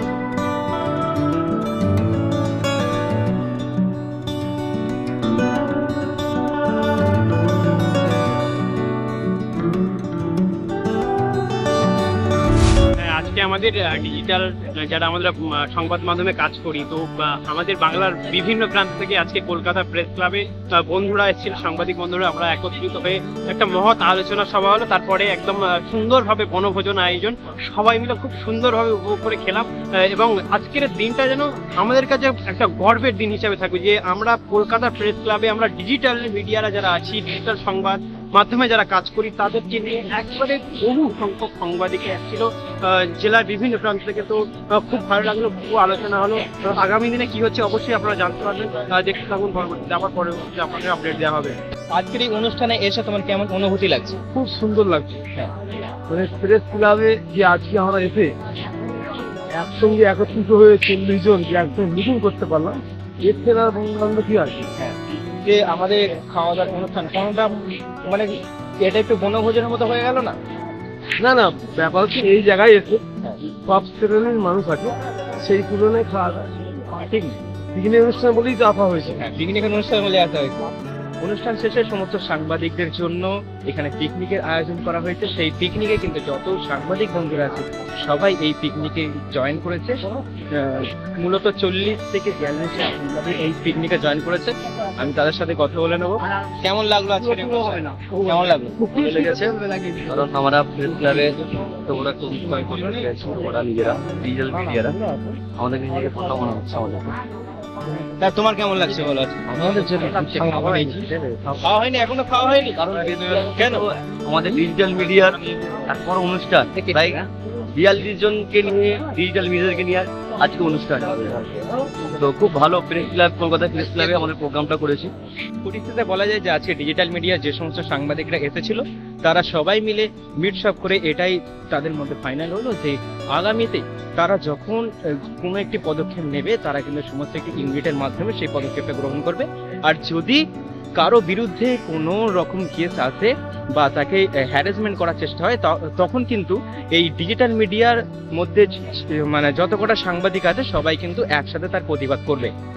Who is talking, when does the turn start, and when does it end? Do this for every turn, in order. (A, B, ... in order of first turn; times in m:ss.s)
0:13.0-0:51.6 A
0:51.9-0:54.2 B
0:54.3-0:55.3 C
0:56.1-0:58.4 C
0:59.5-1:04.7 C
1:04.8-1:10.4 B
1:11.2-1:19.2 C
1:19.2-1:20.6 B
1:21.2-1:39.4 B
1:38.8-1:40.1 C
1:39.1-1:47.2 D
1:48.2-1:53.9 B
1:49.5-1:51.6 D
1:52.8-2:05.1 D
2:03.8-2:04.3 B
2:05.6-2:20.4 B
2:21.0-2:32.5 B